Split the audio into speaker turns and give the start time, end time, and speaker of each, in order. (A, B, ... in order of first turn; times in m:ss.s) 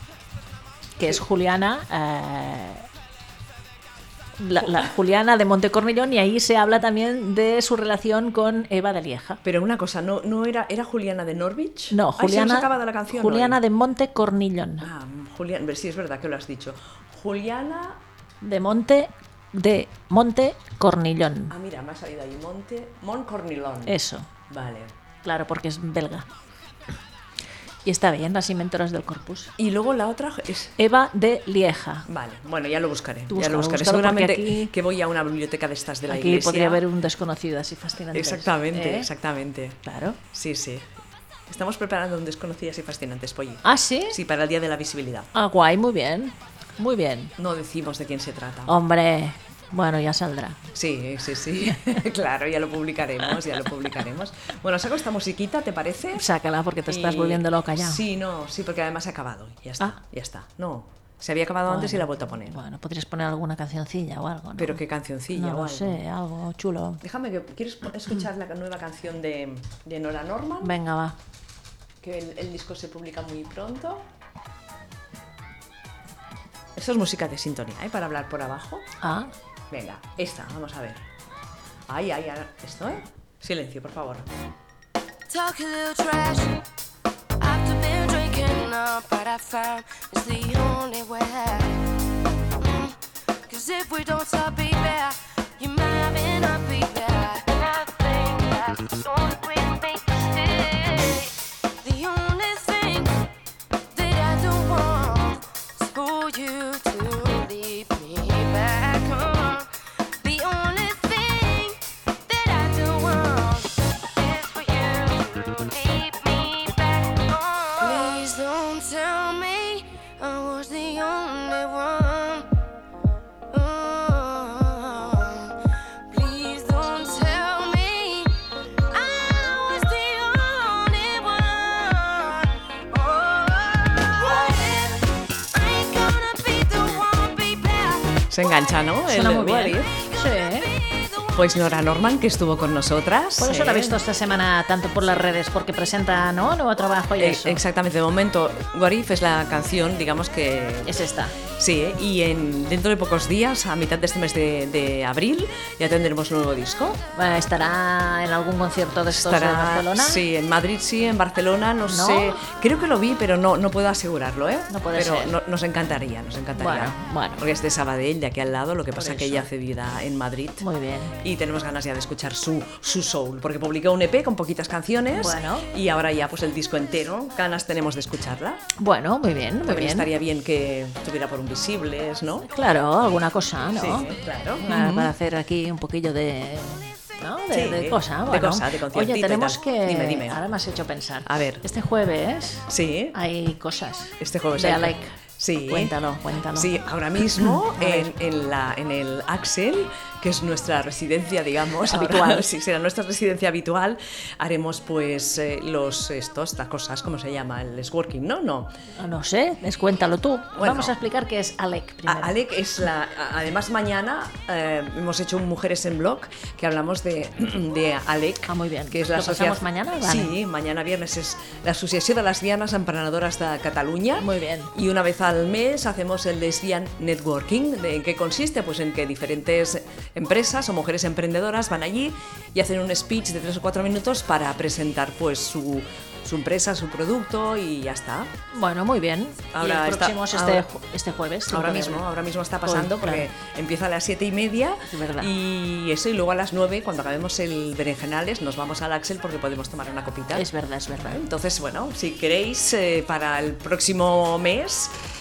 0:01.0-0:02.8 A
0:04.4-0:09.4 A
0:09.4-0:13.6 B
0:11.9-0:14.8 A
0:14.8-0:18.0 B
0:18.4-0:21.5 A
0:21.5-0:23.9 B
0:23.9-0:24.3 A
0:24.5-0:24.9 B
0:25.2-0:26.3 A
0:27.8-0:29.5 A
0:29.6-0:30.7 B
0:30.8-0:32.0 A
0:32.1-0:36.8 B
0:33.3-0:34.7 A
0:36.1-0:39.1 A
0:38.1-0:39.8 B
0:39.8-0:40.2 A
0:40.3-0:40.9 B
0:41.5-0:45.3 B
0:43.6-0:44.2 A
0:45.3-0:47.3 A
0:47.4-0:48.7 B
0:48.7-0:50.6 A
0:50.7-0:56.3 B
0:56.2-0:58.0 A
0:56.9-1:02.6 B
1:01.7-1:04.8 A
1:04.6-1:06.0 B
1:05.3-1:07.0 A
1:07.0-1:10.7 B
1:10.6-1:11.2 A
1:12.0-1:14.1 B
1:16.8-1:18.9 B
1:19.0-1:19.3 A
1:19.7-1:21.0 B
1:21.9-1:24.3 B
1:25.3-1:26.6 C
1:27.4-1:31.8 C
1:32.6-1:43.2 C
1:43.9-1:49.7 C
1:50.2-2:02.5 C
2:03.5-2:05.5 C
2:06.1-2:08.4 C
2:08.9-2:18.3 C
2:18.3-2:20.0 B
2:19.1-2:20.7 A
2:20.3-2:21.5 C
2:21.3-2:24.0 B
2:23.4-2:27.6 A
2:27.2-2:30.9 B
2:30.8-2:31.4 A
2:31.5-2:37.0 B
2:37.1-2:40.2 A
2:39.1-2:50.6 B
2:41.8-2:42.4 A
2:44.7-2:45.4 A
2:46.6-2:47.4 A
2:49.0-2:49.5 A
2:50.6-2:51.2 A
2:51.2-2:58.6 B
2:55.1-2:55.7 A
2:58.8-3:00.1 A
2:59.6-3:02.5 B
3:02.5-3:04.1 A
3:03.8-3:05.1 B
3:04.6-3:15.1 A
3:07.5-3:10.4 B
3:11.2-3:11.6 B
3:12.7-3:13.1 B
3:14.2-3:15.9 B
3:15.7-3:16.8 A
3:16.5-3:28.7 B
3:17.4-3:18.1 A
3:21.9-3:22.5 A
3:29.0-3:32.3 A
3:30.5-3:30.9 B
3:32.0-3:58.3 B
3:38.4-3:40.3 A
3:44.2-3:44.7 A
3:58.5-4:02.0 A
3:59.5-4:00.7 B
4:01.5-4:10.5 B
4:02.6-4:03.2 A
4:04.9-4:05.3 A
4:10.3-4:11.2 A
4:11.0-4:15.0 B